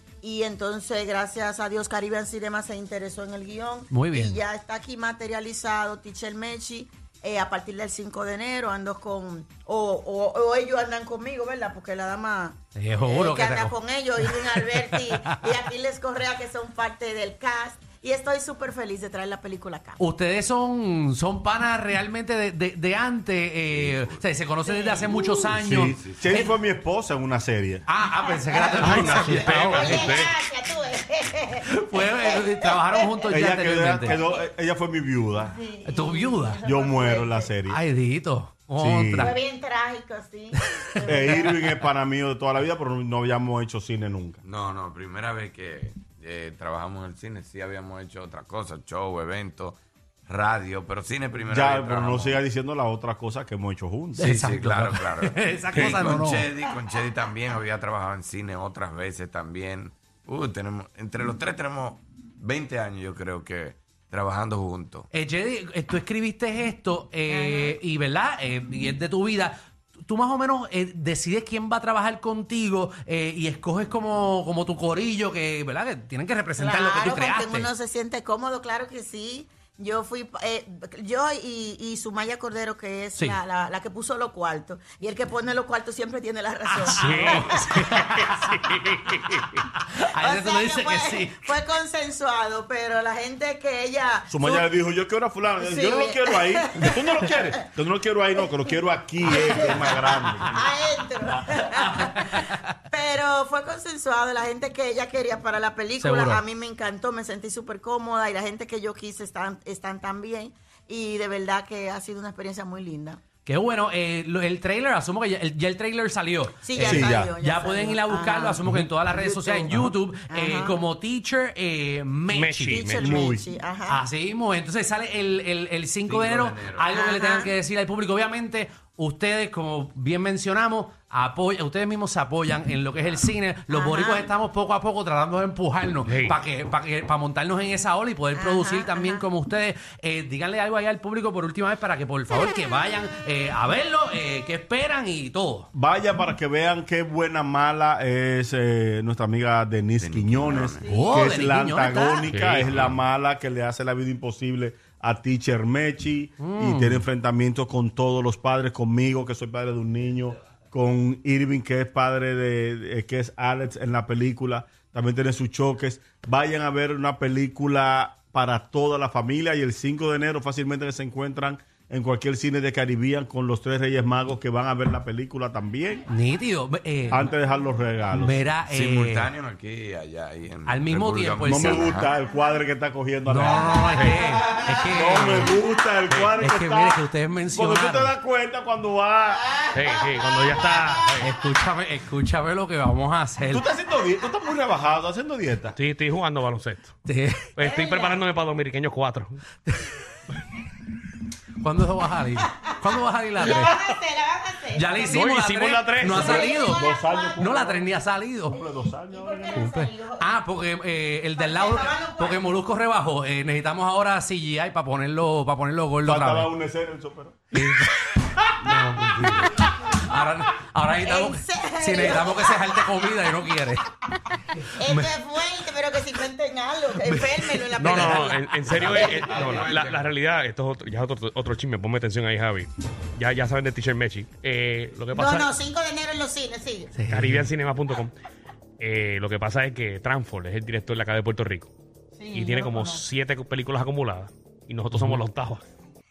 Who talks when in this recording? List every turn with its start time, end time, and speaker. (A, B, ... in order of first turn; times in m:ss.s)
0:00.2-0:20.0 A
0:03.9-0:04.4 B
0:12.8-0:15.3 B
0:20.0-0:26.5 B
0:23.7-0:24.2 C
0:24.6-0:25.4 A
0:25.6-0:27.8 D
0:25.7-0:26.4 C
0:27.9-0:30.2 B
0:28.2-0:33.5 A
0:28.8-0:30.4 E
0:28.9-0:29.4 D
0:31.6-0:34.2 B
0:33.3-0:35.6 D
0:34.0-0:34.4 A
0:35.4-0:37.5 A
0:35.8-0:36.6 B
0:36.6-0:37.8 D
0:37.7-0:39.4 B
0:38.8-0:39.3 D
0:39.2-0:41.7 A
0:41.0-0:44.4 D
0:44.4-0:52.4 C
0:51.5-0:54.3 D
0:54.2-0:56.5 B
0:54.2-1:05.1 C
1:05.1-1:17.7 B
1:07.3-1:07.8 A
1:16.6-1:27.6 A
1:26.7-1:28.5 B
1:26.9-1:29.6 E
1:29.6-1:31.4 B
1:30.2-1:34.7 A
1:34.3-1:40.7 D
1:35.6-1:37.6 A
1:39.2-1:53.2 A
1:41.8-1:42.6 B
1:46.0-1:46.4 B
1:53.4-2:02.8 B
1:56.6-1:59.7 A
1:56.8-1:57.3 D
1:58.6-1:58.9 D
2:00.3-2:00.8 A
2:02.3-2:03.2 E
2:02.7-2:04.0 A
2:03.0-2:03.4 D
2:03.9-2:25.7 B
2:06.0-2:06.9 C
2:06.9-2:07.5 A
2:13.7-2:14.3 A
2:16.1-2:16.3 E
2:18.3-2:19.3 A
2:25.7-2:56.0 D
2:30.0-2:30.8 C
2:30.8-2:31.1 A
2:30.9-2:32.3 B
2:32.3-2:33.0 E
2:36.4-2:37.0 B
2:56.1-2:57.3 B
2:57.1-2:58.4 D
2:58.1-2:59.3 B
2:58.7-3:02.2 C
3:00.6-3:01.9 B
3:01.4-3:03.9 D
3:03.2-3:05.6 B
3:04.0-3:04.2 E
3:04.9-3:09.4 D
3:06.1-3:06.3 E
3:06.4-3:08.1 B
3:09.7-3:11.3 E
3:11.2-3:13.6 B
3:13.5-3:15.8 D
3:15.8-3:17.0 E
3:17.0-3:17.5 B
3:17.6-3:19.4 E
3:17.6-3:18.2 A
3:19.7-3:19.9 B
3:21.6-3:23.8 B
3:23.4-3:25.2 A
3:24.7-3:28.6 B
3:25.1-3:26.3 E
3:26.0-3:27.8 A
3:26.2-3:27.8 D
3:28.5-3:29.7 D
3:28.5-3:30.3 A
3:29.5-3:36.5 B
3:31.3-3:32.5 A
3:36.0-3:37.6 D
3:37.5-3:43.9 B
3:38.6-3:39.7 C
3:41.0-3:43.5 A
3:44.8-3:49.2 A
3:44.8-3:45.1 B
3:47.0-3:48.0 B
3:47.8-3:55.5 E
3:47.9-3:50.1 C
3:55.1-3:56.9 A
3:56.9-3:57.5 B
3:57.1-3:58.1 E
3:58.8-4:01.7 E
4:02.2-4:03.0 A
4:02.3-4:05.6 E
4:04.9-4:05.2 B